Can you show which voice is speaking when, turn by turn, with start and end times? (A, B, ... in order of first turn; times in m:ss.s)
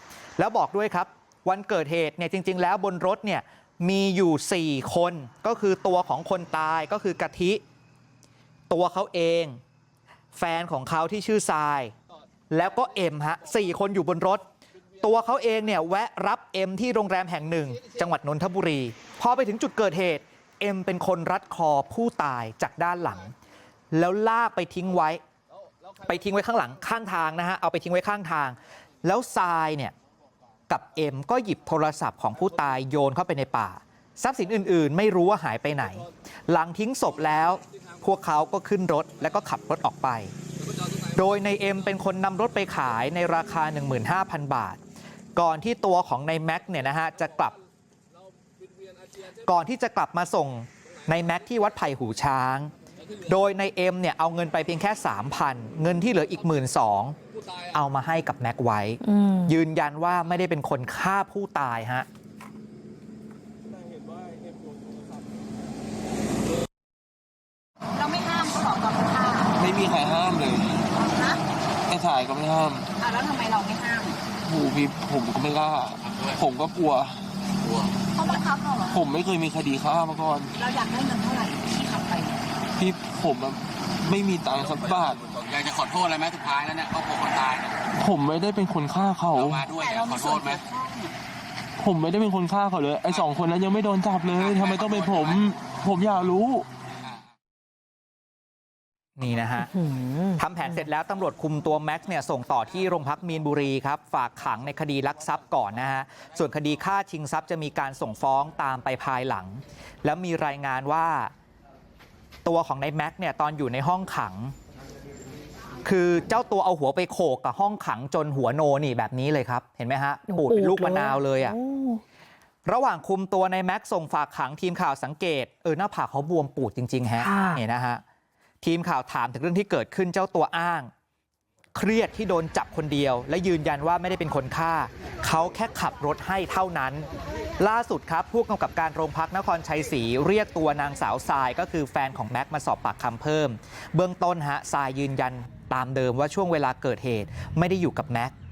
0:00.4-0:07.6 A
0:08.7-0:09.6 A
0:10.3-0:11.9 A
0:12.5-0:14.5 A
0:15.0-0:23.3 A
0:23.9-0:25.2 A
0:26.0-0:29.9 A
0:30.7-0:40.3 A
0:40.9-0:44.8 A
0:45.4-0:47.5 A
0:49.4-0:52.7 A
0:53.2-0:57.2 A
0:57.7-1:02.1 A
0:59.0-0:59.5 B
1:07.9-1:09.5 C
1:09.5-1:10.9 D
1:10.9-1:11.4 C
1:11.9-1:12.9 D
1:13.0-1:14.2 C
1:14.4-1:17.2 D
1:17.6-1:18.0 E
1:18.1-1:19.0 C
1:18.9-1:20.5 D
1:20.5-1:22.4 C
1:22.8-1:25.4 D
1:25.3-1:27.8 E
1:27.9-1:29.8 D
1:29.4-1:30.7 E
1:29.8-1:30.9 C
1:31.8-1:36.7 D
1:34.4-1:35.4 E
1:39.2-1:39.7 A
1:39.6-1:40.7 B
1:40.4-1:51.3 A
1:52.4-1:54.5 A
1:55.8-2:01.6 A
2:00.3-2:02.0 B
2:02.6-2:08.0 A
2:07.2-2:07.6 B
2:08.6-2:10.9 A
2:11.7-2:17.1 A
2:17.6-2:28.3 A